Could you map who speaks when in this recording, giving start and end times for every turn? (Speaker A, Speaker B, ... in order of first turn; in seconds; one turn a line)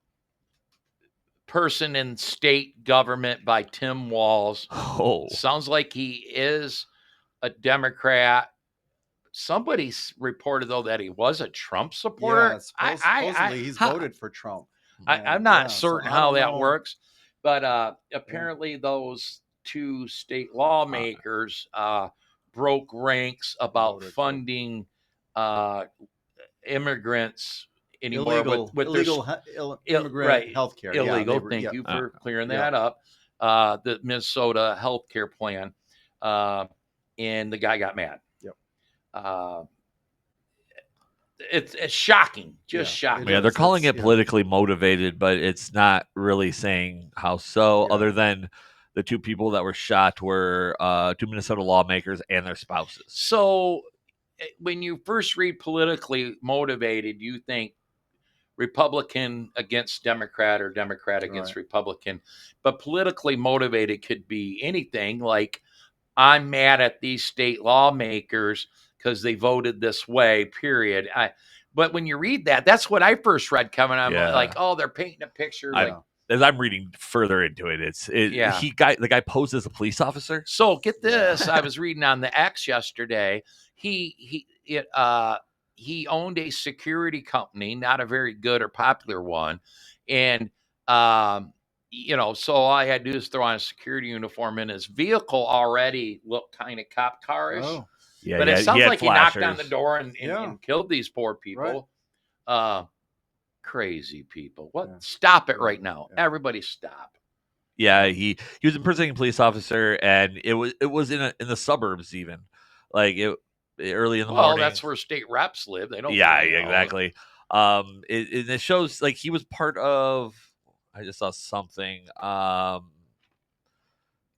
Speaker A: 1.5-4.7
Speaker B: 4.7-5.4
Speaker A: 5.3-6.9
Speaker A: 7.4-8.5
Speaker A: 9.3-14.1
Speaker C: 12.2-16.8
Speaker A: 15.1-25.9
Speaker B: 20.9-21.2
Speaker C: 23.8-24.4
Speaker A: 26.6-29.2
Speaker C: 28.1-31.8
Speaker A: 29.9-38.2
Speaker A: 39.1-39.7
Speaker A: 41.4-43.5
Speaker C: 42.7-44.2
Speaker B: 43.2-53.1
Speaker C: 47.8-48.1
Speaker A: 53.1-53.9
Speaker A: 54.4-57.8
Speaker A: 58.6-65.6
Speaker C: 61.3-61.5
Speaker A: 66.2-76.0
Speaker B: 74.1-74.5
Speaker B: 75.7-80.5
Speaker C: 75.7-76.0
Speaker A: 78.3-78.7
Speaker A: 80.5-97.8
Speaker C: 81.0-81.4
Speaker C: 97.5-97.9
Speaker B: 98.2-99.7
Speaker A: 98.4-101.9
Speaker C: 100.2-100.6
Speaker C: 101.5-101.8
Speaker A: 102.5-102.9
Speaker A: 103.6-107.1
Speaker C: 105.6-106.2
Speaker B: 107.8-114.8
Speaker A: 114.3-116.9
Speaker B: 116.1-120.4
Speaker B: 121.0-122.9